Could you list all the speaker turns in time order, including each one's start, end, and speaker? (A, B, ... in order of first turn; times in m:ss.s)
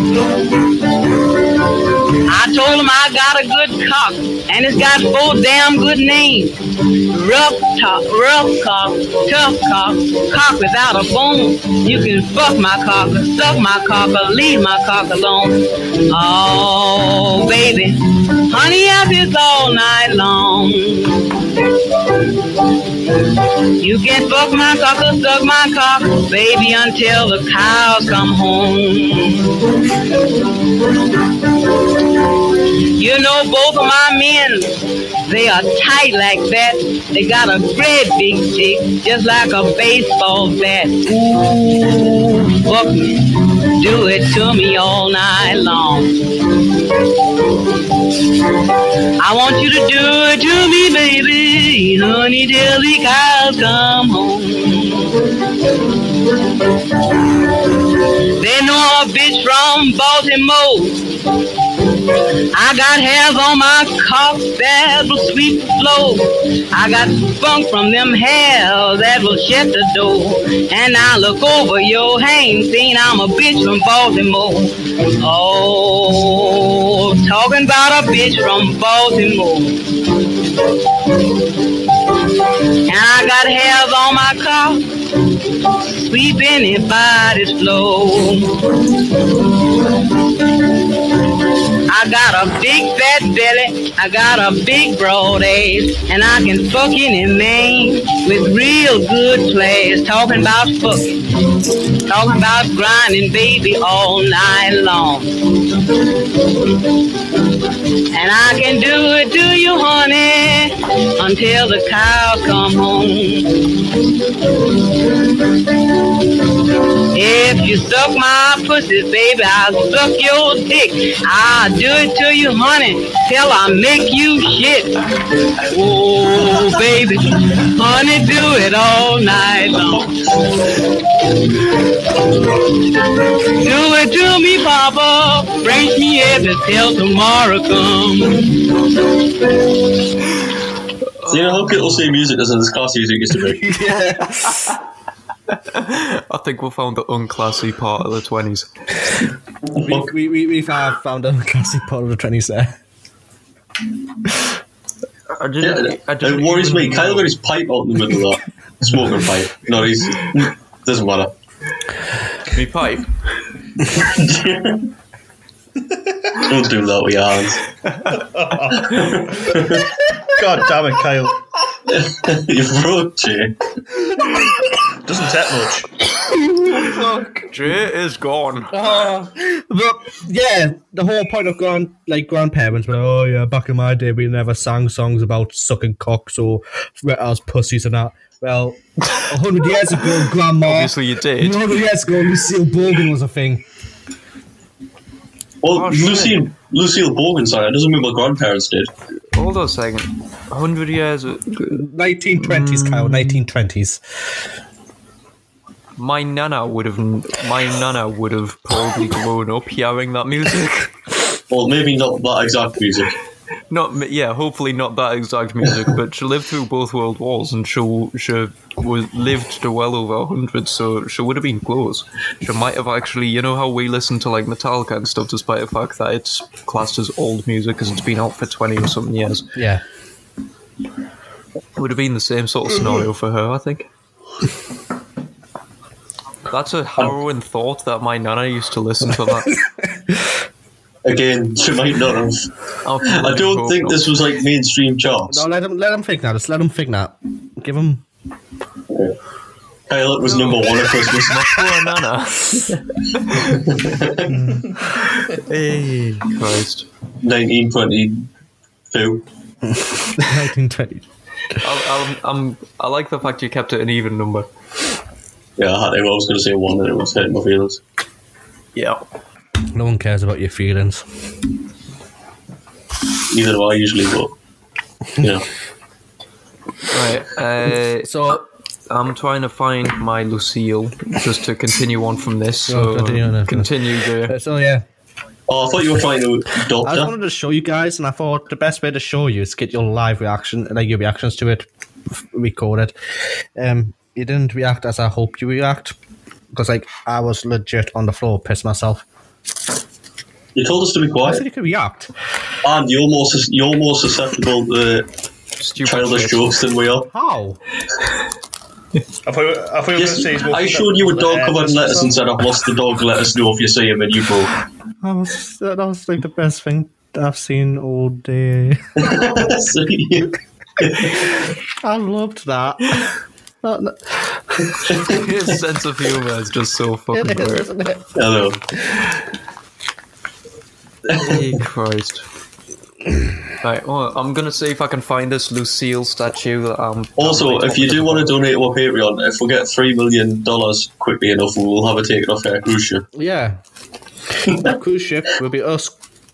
0:02.3-0:21.4 A
0:23.8-0:29.6 A
0:32.6-0:46.2 A
0:49.2-0:55.3 A
0:57.8-1:01.2 A
1:02.5-1:19.8 A
1:22.9-1:25.0 A
1:25.7-1:28.8 A
1:31.9-1:45.5 A
1:48.1-1:53.8 A
1:57.1-2:05.0 A
2:05.6-2:10.4 A
2:13.2-2:18.8 A
2:21.2-2:22.0 B
2:21.3-2:23.7 C
2:23.5-2:24.8 D
2:25.5-2:28.7 B
2:29.7-2:30.1 C
2:29.8-2:32.8 D
2:35.3-2:37.4 B
2:35.6-2:41.3 C
2:42.5-2:43.1 B
2:43.8-2:44.9 C
2:46.4-2:47.6 C
2:47.8-2:48.1 B
2:48.1-2:49.6 E
2:48.9-2:49.9 C
2:50.2-2:51.4 E
2:51.9-2:53.6 C
2:55.0-2:55.9 E
2:56.2-2:57.5 D
2:57.5-2:58.8 B
2:58.7-3:13.6 D
3:10.6-3:11.8 B
3:15.6-3:18.9 C
3:15.7-3:16.4 B
3:19.3-3:21.8 B
3:21.7-3:24.0 D
3:22.4-3:23.4 B
3:26.0-3:31.0 B
3:31.5-3:33.2 C
3:33.7-3:49.5 B
3:49.6-3:49.8 D
3:51.8-3:53.9 B
3:56.5-3:59.6 B
4:01.0-4:02.5 C
4:02.8-4:04.1 B
4:03.0-4:05.4 C
4:05.3-4:08.0 D
4:09.9-4:11.6 C
4:10.3-4:13.6 B
4:13.4-4:14.3 C
4:14.3-4:14.8 D
4:15.2-4:16.9 B
4:17.2-4:18.3 C
4:18.9-4:19.2 C
4:19.6-4:21.0 D
4:21.6-4:24.5 B
4:25.6-4:27.8 C
4:28.8-4:29.0 B
4:29.7-4:31.0 D
4:33.3-4:34.3 C
4:35.2-4:35.4 C
4:36.9-4:44.4 B
4:38.0-4:38.4 D
4:42.7-4:44.8 D
4:45.5-4:47.1 C
4:46.8-4:52.9 D
4:53.6-4:56.0 D
4:56.5-4:59.0 D
5:00.6-5:01.4 C
5:01.2-5:02.1 D
5:02.6-5:05.1 C
5:05.6-5:06.6 B
5:05.8-5:07.1 C
5:07.1-5:07.6 D
5:09.2-5:12.2 E
5:09.9-5:14.5 C
5:15.0-5:19.1 D
5:19.0-5:21.2 C
5:21.8-5:23.1 D
5:23.6-5:24.8 D
5:24.9-5:25.1 C
5:25.0-5:27.7 B
5:27.1-5:28.0 D
5:28.2-5:28.6 C
5:31.1-5:31.5 C
5:31.1-5:32.2 B
5:33.6-5:38.4 B
5:37.2-5:43.1 C
5:43.1-5:43.6 D
5:44.6-5:46.0 D